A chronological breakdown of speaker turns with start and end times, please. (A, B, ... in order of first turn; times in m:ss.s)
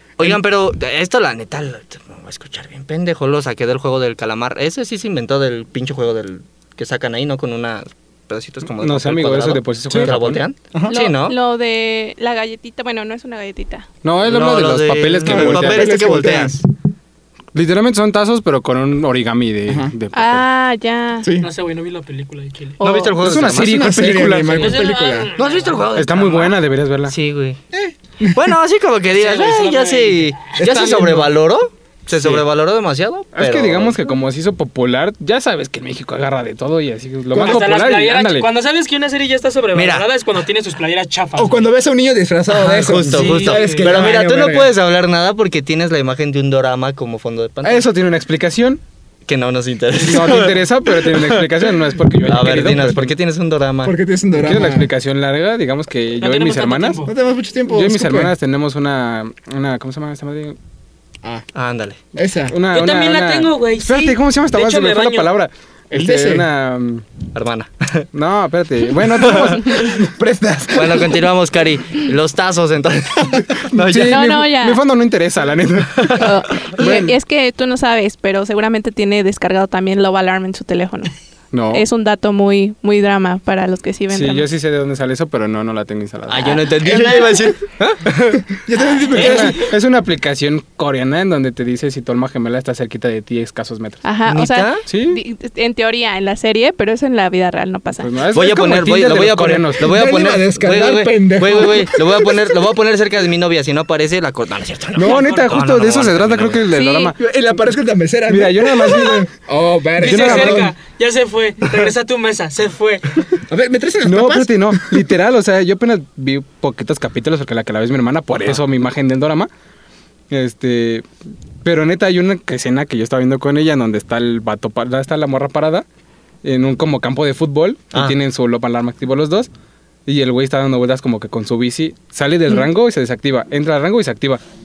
0:00.2-0:11.4 A
0:08.7-0:10.4 B
0:09.9-0:10.2 C
0:10.7-0:11.0 C
0:10.9-0:13.9 D
0:14.0-0:16.1 B
0:14.2-0:16.6 A
0:15.2-0:16.6 C
0:17.5-0:20.4 B
0:19.7-0:19.9 C
0:20.1-0:21.3 D
0:21.2-0:21.5 C
0:21.4-0:22.8 E
0:22.8-0:23.2 D
0:22.8-0:23.9 A
0:23.2-0:24.8 B
0:23.4-0:25.3 C
0:24.3-0:25.9 E
0:25.4-0:27.6 A
0:25.9-0:27.1 B
0:27.7-0:28.5 C
0:28.3-0:34.0 A
0:29.1-0:30.9 E
0:30.6-0:31.3 C
0:32.1-0:32.4 C
0:33.3-0:38.5 B
0:37.3-0:37.7 C
0:37.3-0:41.7 E
0:39.7-0:40.1 A
0:41.4-0:44.7 C
0:42.5-0:47.9 A
0:43.1-0:44.2 E
0:47.6-0:48.8 B
0:49.2-0:51.5 A
0:50.0-0:53.2 B
0:52.2-0:53.9 A
0:53.8-0:54.9 C
0:54.4-0:57.0 B
0:56.2-0:57.1 E
0:57.0-0:58.3 C
0:57.7-1:00.6 B
1:01.5-1:02.0 A
1:02.1-1:02.6 C
1:02.5-1:07.0 B
1:02.7-1:05.3 E
1:05.9-1:06.5 C
1:07.3-1:08.1 A
1:08.1-1:10.0 B
1:09.1-1:09.8 A
1:09.8-1:11.3 C
1:10.7-1:14.3 A
1:13.7-1:17.2 B
1:14.0-1:14.8 D
1:16.1-1:21.1 D
1:21.5-1:21.8 B
1:21.7-1:24.5 D
1:24.1-1:26.7 B
1:26.3-1:28.5 A
1:26.8-1:27.5 C
1:28.5-1:29.6 C
1:29.1-1:34.0 B
1:34.0-1:38.1 D
1:34.2-1:34.8 A
1:34.9-1:35.2 B
1:38.0-1:40.0 B
1:38.3-1:46.6 A
1:39.8-1:42.5 C
1:44.9-1:47.2 B
1:45.0-1:45.5 E
1:46.7-1:47.1 D
1:47.2-1:50.7 C
1:48.3-1:49.3 B
1:50.0-1:53.3 E
1:50.0-1:50.7 B
1:53.5-1:55.1 C
1:54.0-1:59.5 B
2:00.3-2:01.0 B
2:01.6-2:05.8 B
2:06.4-2:09.5 B
2:10.0-2:14.4 B